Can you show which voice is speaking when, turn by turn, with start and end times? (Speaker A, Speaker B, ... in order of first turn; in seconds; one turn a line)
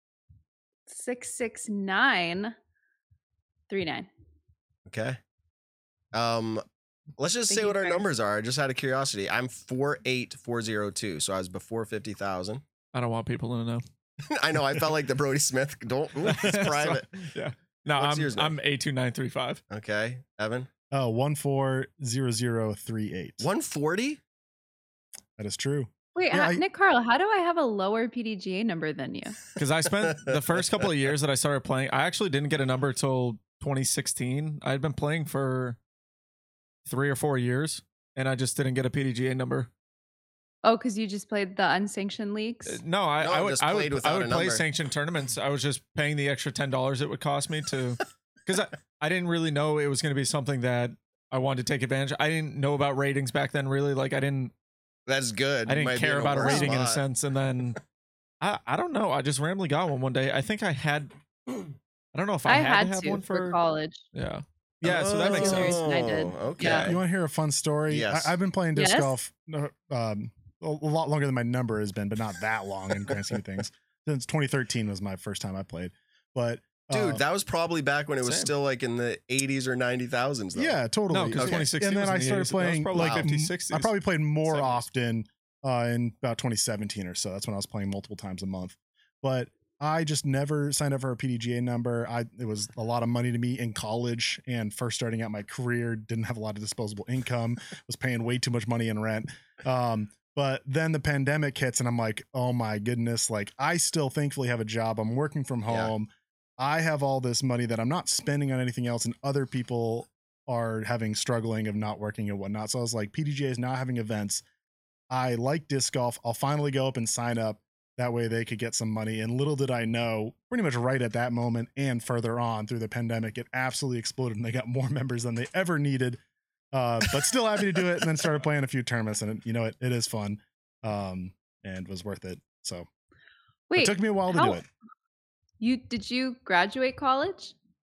Speaker A: 0.9-2.5
Speaker A: 3.7-4.1
Speaker B: 4.9-5.2
Speaker B: 6.1-6.6
Speaker B: 7.2-12.6
Speaker A: 7.5-8.1
Speaker C: 12.9-13.8
Speaker B: 14.2-17.3
Speaker C: 16.2-19.6
Speaker B: 18.0-18.5
Speaker B: 19.7-20.7
Speaker D: 20.9-23.4
Speaker B: 23.4-24.2
Speaker D: 25.4-26.6
Speaker A: 26.1-29.4
Speaker C: 29.6-35.8
Speaker B: 30.0-30.4
Speaker C: 36.9-39.7
Speaker A: 40.6-42.8
Speaker C: 42.6-54.5
Speaker B: 43.2-44.6
Speaker B: 55.1-57.0
Speaker C: 55.7-57.8
Speaker A: 56.4-56.7
Speaker C: 58.4-61.1
Speaker C: 62.1-63.6
Speaker A: 62.5-64.0
Speaker C: 64.1-65.8
Speaker B: 64.8-67.0
Speaker A: 65.2-66.8
Speaker D: 66.6-77.2
Speaker C: 66.6-66.9
Speaker B: 67.9-68.3
Speaker A: 68.8-69.1
Speaker B: 76.9-80.8
Speaker C: 78.2-78.5
Speaker D: 80.5-114.4
Speaker C: 81.1-83.9
Speaker B: 81.3-81.7
Speaker B: 83.0-83.3
Speaker C: 84.4-84.8
Speaker B: 105.7-105.9
Speaker D: 115.1-126.2
Speaker D: 126.7-132.9
Speaker A: 133.7-134.6
Speaker D: 133.8-134.6
Speaker A: 135.6-137.5